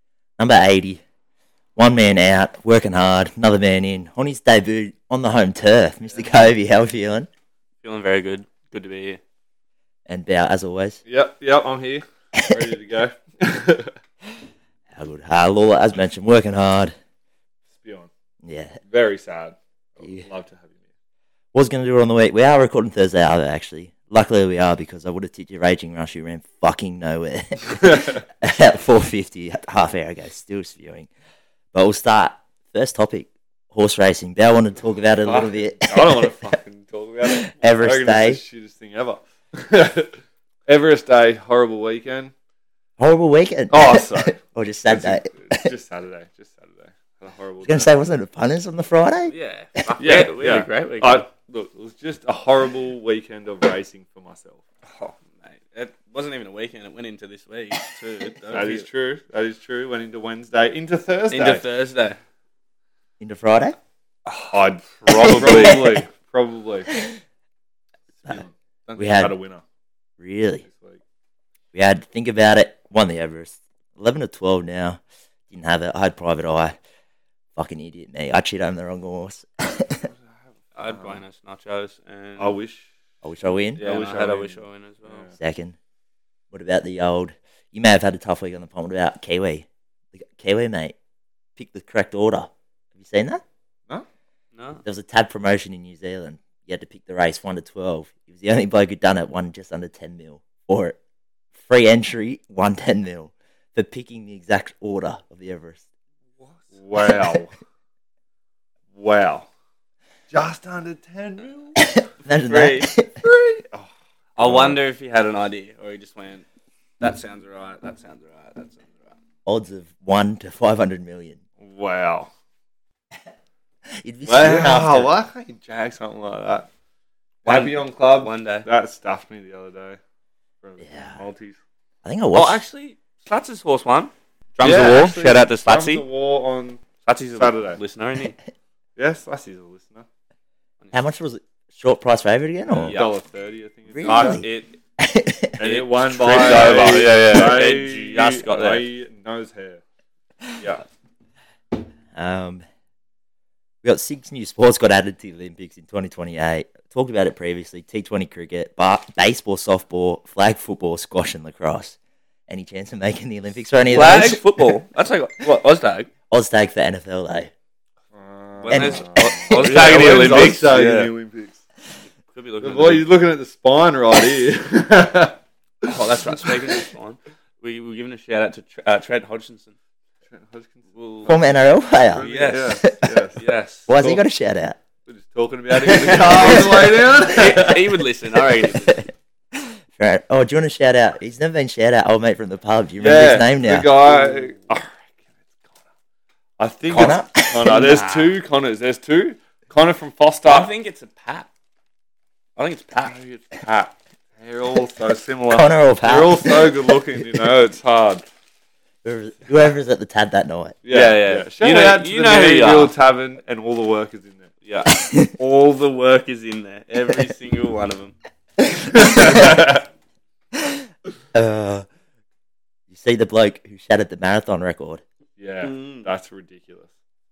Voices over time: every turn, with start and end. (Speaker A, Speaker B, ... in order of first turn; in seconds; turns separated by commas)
Speaker A: 0.4-1.0, Speaker A: 1.8-7.3, Speaker B: 7.8-9.2, Speaker A: 10.1-11.0, Speaker C: 11.1-13.9, Speaker A: 14.9-16.9, Speaker C: 17.7-18.1, Speaker A: 18.4-18.8, Speaker C: 18.9-20.8, Speaker A: 21.5-31.1, Speaker C: 27.7-28.2, Speaker A: 31.7-36.5, Speaker C: 35.2-42.3, Speaker A: 37.2-38.4, Speaker A: 43.0-45.7, Speaker C: 43.7-47.9, Speaker A: 47.6-50.2, Speaker B: 49.3-51.2, Speaker C: 50.0-55.1, Speaker B: 55.4-58.9, Speaker C: 58.5-61.6, Speaker B: 61.3-62.2, Speaker A: 63.2-63.8, Speaker C: 64.2-66.9, Speaker A: 65.1-66.0, Speaker B: 65.3-65.7, Speaker C: 68.2-69.6, Speaker A: 69.0-69.3, Speaker A: 70.2-70.7, Speaker C: 70.6-71.0, Speaker A: 71.7-76.7, Speaker A: 77.5-80.1, Speaker B: 80.7-82.6, Speaker C: 80.8-81.2, Speaker C: 82.4-82.9, Speaker A: 83.2-83.8, Speaker B: 83.8-85.3, Speaker C: 83.8-85.3, Speaker A: 85.4-85.8, Speaker A: 86.5-90.9, Speaker A: 91.5-93.4, Speaker B: 94.5-94.8, Speaker A: 94.8-101.0, Speaker A: 101.5-105.8, Speaker C: 106.7-107.5, Speaker C: 108.9-109.5, Speaker C: 110.3-111.8, Speaker A: 111.8-113.2, Speaker B: 112.5-112.9, Speaker C: 113.2-114.8, Speaker B: 114.4-116.4, Speaker B: 117.0-119.2, Speaker A: 119.5-121.4, Speaker C: 121.6-122.3, Speaker A: 124.0-125.1, Speaker C: 124.2-126.7, Speaker B: 127.4-128.7, Speaker C: 127.4-130.0, Speaker C: 130.6-131.6, Speaker A: 130.8-131.2, Speaker A: 132.0-132.6, Speaker B: 132.3-136.0, Speaker C: 134.6-136.8, Speaker B: 137.0-138.3, Speaker C: 137.3-137.8, Speaker C: 138.9-140.1, Speaker A: 140.9-143.0, Speaker C: 142.7-144.4, Speaker B: 142.8-143.1, Speaker A: 143.9-144.5, Speaker B: 144.0-144.8, Speaker A: 145.0-145.6, Speaker C: 145.6-149.8, Speaker B: 145.6-148.8, Speaker A: 146.2-147.1, Speaker C: 150.6-150.8, Speaker A: 152.1-152.6, Speaker A: 153.8-162.0, Speaker A: 162.5-164.4, Speaker B: 163.9-166.1, Speaker A: 166.3-167.5, Speaker C: 168.1-171.6, Speaker B: 168.6-171.1, Speaker A: 168.7-169.1, Speaker B: 172.3-173.1, Speaker C: 172.6-176.7, Speaker B: 175.9-179.7, Speaker C: 180.3-181.4, Speaker B: 180.9-181.3, Speaker A: 181.3-183.1, Speaker C: 182.1-183.4, Speaker B: 182.2-182.8, Speaker B: 183.3-183.9, Speaker A: 183.9-184.8, Speaker C: 184.0-184.2, Speaker C: 185.1-188.0, Speaker B: 185.7-189.0, Speaker A: 186.3-187.4, Speaker A: 188.6-193.9, Speaker C: 193.0-195.2, Speaker C: 196.6-200.7, Speaker A: 196.9-197.8, Speaker B: 197.0-198.4, Speaker B: 200.4-201.5, Speaker B: 202.6-203.2, Speaker C: 203.1-208.2, Speaker A: 205.5-207.4, Speaker A: 209.0-210.8, Speaker C: 210.8-214.5, Speaker B: 210.9-212.9, Speaker B: 214.6-218.1, Speaker A: 215.1-215.3, Speaker C: 218.8-219.8, Speaker A: 219.1-219.6, Speaker A: 221.3-221.9, Speaker A: 222.9-225.0, Speaker C: 225.4-226.9, Speaker B: 225.6-226.1